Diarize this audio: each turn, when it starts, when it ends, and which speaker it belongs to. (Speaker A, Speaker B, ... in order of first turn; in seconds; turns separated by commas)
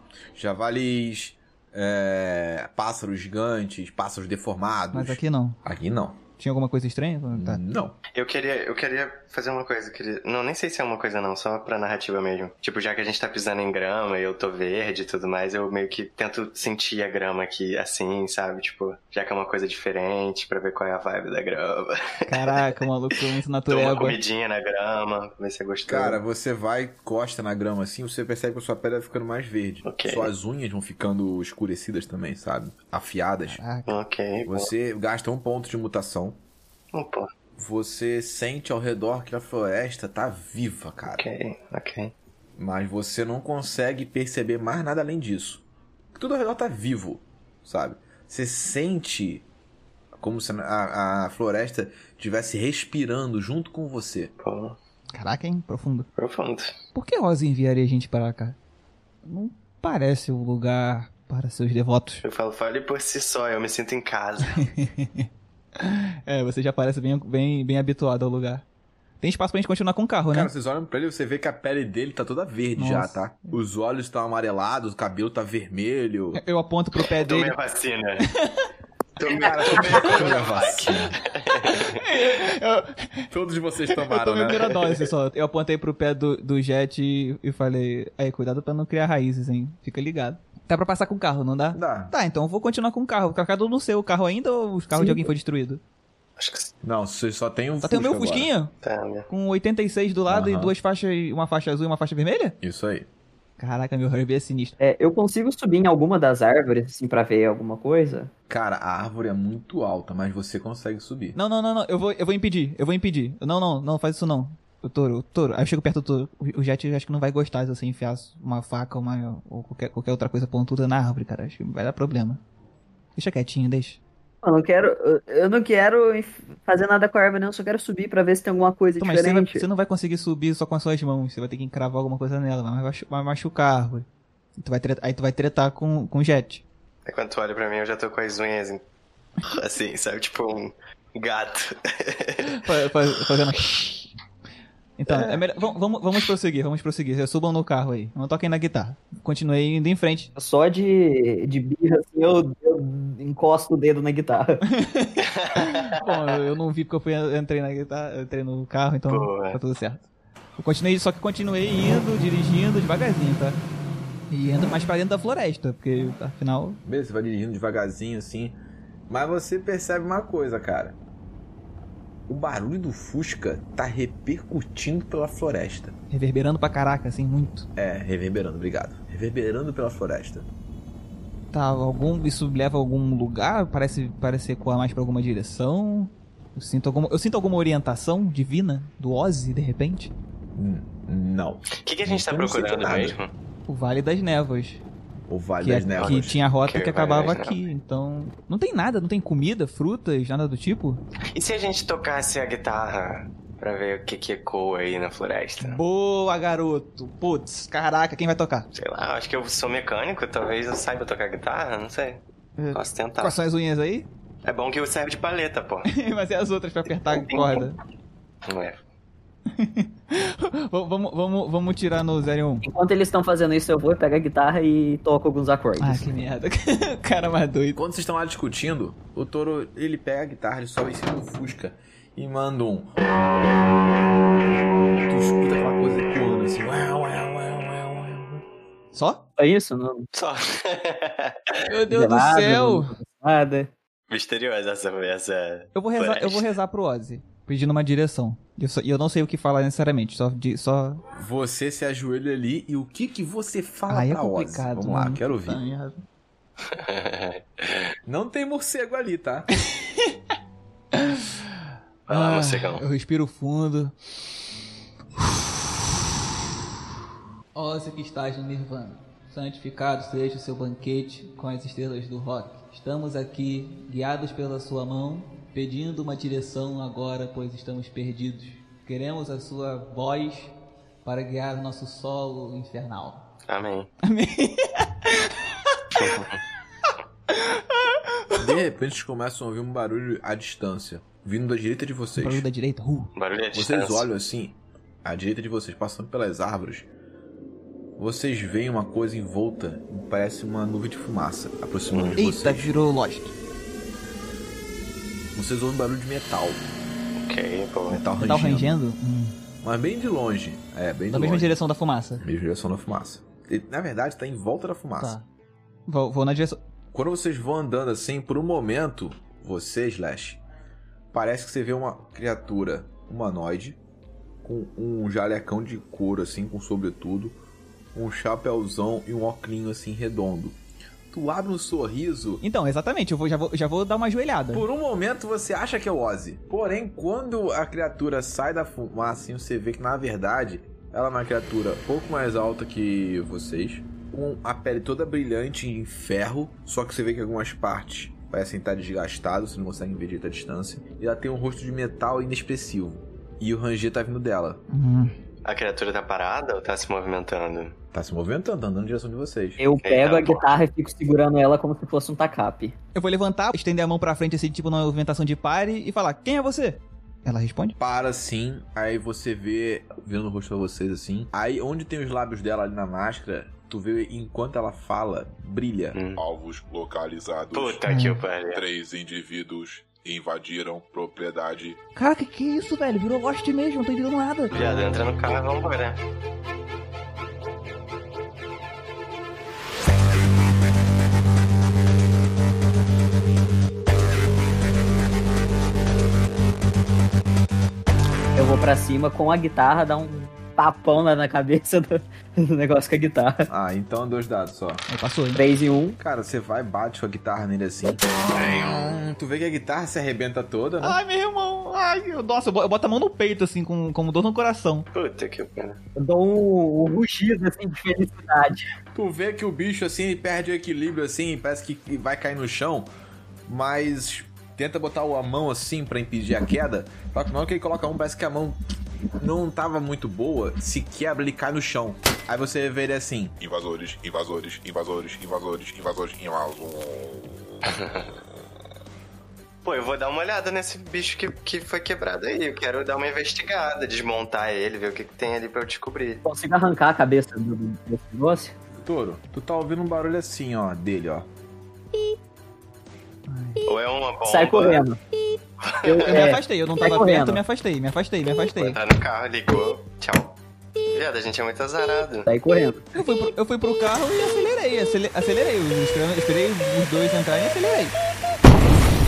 Speaker A: 0.3-6.2, Speaker B: 4.9-5.6, Speaker B: 6.4-7.6, Speaker A: 7.3-8.0, Speaker C: 8.1-22.6, Speaker B: 22.3-24.2, Speaker C: 23.7-26.2, Speaker A: 25.9-33.6, Speaker C: 29.9-30.3, Speaker B: 33.5-34.0, Speaker C: 33.9-34.7, Speaker A: 34.5-36.4, Speaker C: 36.9-37.3, Speaker A: 37.6-41.2, Speaker C: 41.2-42.1, Speaker A: 42.6-45.6, Speaker A: 46.1-49.5, Speaker A: 50.2-54.3, Speaker C: 54.4-54.8, Speaker B: 55.1-56.1, Speaker C: 56.2-56.7, Speaker B: 57.0-58.6, Speaker B: 59.2-62.2, Speaker C: 62.2-64.6, Speaker B: 64.5-68.7, Speaker B: 69.2-70.5, Speaker A: 70.3-76.4, Speaker B: 72.8-73.6, Speaker B: 76.3-77.6, Speaker C: 77.1-78.3, Speaker B: 78.3-78.7, Speaker C: 79.2-82.1, Speaker A: 79.2-81.2, Speaker B: 81.6-83.3, Speaker A: 83.3-84.8, Speaker B: 83.9-95.8, Speaker A: 91.7-92.1, Speaker D: 94.9-95.3, Speaker C: 96.4-96.7, Speaker A: 96.8-98.5, Speaker B: 97.8-98.7, Speaker C: 98.8-99.3, Speaker B: 99.3-102.6, Speaker A: 100.3-100.8, Speaker A: 102.6-103.1, Speaker B: 103.6-104.8, Speaker D: 104.8-108.3, Speaker A: 108.5-111.4, Speaker B: 111.3-122.4, Speaker B: 123.2-124.0, Speaker D: 124.4-129.7, Speaker B: 129.0-134.1, Speaker B: 134.6-136.6, Speaker C: 137.1-138.8, Speaker C: 139.4-142.6, Speaker B: 142.4-144.1, Speaker B: 145.0-150.3, Speaker C: 145.1-145.4, Speaker D: 150.4-154.6, Speaker B: 154.7-160.1, Speaker C: 155.2-156.2, Speaker C: 159.1-159.6, Speaker B: 160.6-163.6, Speaker B: 164.3-166.8, Speaker A: 166.8-168.6, Speaker A: 169.1-171.0, Speaker A: 172.3-175.9, Speaker B: 176.1-177.7, Speaker A: 177.8-180.5, Speaker B: 181.5-190.1, Speaker A: 190.6-193.2, Speaker C: 191.8-193.3, Speaker B: 193.7-194.8, Speaker A: 195.3-196.4, Speaker B: 195.6-201.0, Speaker C: 196.0-197.6, Speaker C: 201.3-205.8, Speaker B: 205.6-208.7, Speaker C: 208.7-213.4, Speaker B: 212.6-214.1, Speaker C: 214.4-215.9, Speaker B: 215.9-217.8, Speaker C: 217.1-217.7, Speaker C: 218.5-218.8, Speaker B: 219.5-222.7, Speaker D: 222.6-226.1, Speaker B: 225.8-227.8, Speaker A: 227.8-233.0, Speaker A: 235.1-238.4, Speaker B: 238.9-239.2, Speaker D: 239.4-240.1, Speaker C: 240.1-241.7, Speaker B: 241.7-242.9, Speaker D: 241.9-243.7, Speaker C: 244.1-246.5, Speaker B: 245.8-251.0, Speaker A: 251.1-255.6, Speaker B: 253.9-256.0, Speaker C: 256.7-257.9, Speaker A: 258.1-259.5, Speaker B: 259.8-260.1, Speaker B: 260.9-261.3, Speaker C: 262.1-262.9, Speaker B: 262.1-263.9, Speaker B: 267.5-283.3, Speaker C: 283.5-283.9, Speaker B: 284.0-286.2, Speaker C: 286.0-286.4, Speaker B: 287.3-288.5, Speaker A: 288.4-292.5, Speaker B: 292.2-293.1, Speaker C: 293.2-294.1, Speaker A: 293.5-296.9, Speaker A: 298.0-302.7, Speaker C: 301.9-302.2, Speaker B: 302.2-303.3, Speaker A: 305.4-306.7, Speaker C: 307.2-308.1, Speaker A: 307.9-308.8, Speaker B: 308.2-309.4, Speaker A: 309.6-311.6, Speaker B: 311.1-312.2, Speaker A: 312.2-315.2, Speaker B: 315.0-315.2, Speaker B: 315.9-316.6, Speaker A: 316.9-320.4, Speaker A: 321.1-323.8, Speaker A: 324.4-327.4, Speaker A: 327.9-330.6, Speaker A: 331.1-332.4, Speaker B: 332.4-334.7, Speaker A: 334.5-354.6, Speaker B: 354.7-355.1, Speaker C: 355.4-357.8, Speaker A: 357.9-359.6, Speaker D: 359.6-362.8, Speaker C: 359.8-360.4, Speaker B: 362.9-367.8, Speaker A: 367.8-376.0, Speaker C: 375.9-376.2, Speaker E: 376.1-377.8, Speaker C: 377.5-378.6, Speaker B: 377.9-378.2, Speaker E: 378.5-381.8, Speaker B: 381.9-384.6, Speaker C: 384.5-386.0, Speaker D: 398.4-403.5, Speaker A: 403.5-404.9, Speaker B: 404.9-405.4, Speaker D: 405.3-406.0, Speaker A: 406.0-411.0, Speaker B: 410.8-414.9, Speaker C: 414.9-415.8, Speaker D: 416.0-418.7, Speaker A: 418.9-422.9, Speaker A: 423.5-428.6, Speaker A: 429.1-433.4, Speaker E: 433.4-437.6, Speaker C: 437.7-438.1, Speaker C: 439.6-446.2, Speaker D: 446.2-448.6, Speaker A: 448.8-451.3, Speaker B: 453.3-453.6, Speaker C: 453.7-454.9, Speaker D: 454.3-455.0, Speaker C: 455.6-456.3, Speaker D: 455.9-457.4, Speaker B: 456.1-458.8, Speaker C: 458.6-460.4, Speaker C: 460.9-462.3, Speaker D: 462.3-462.9, Speaker B: 462.9-467.9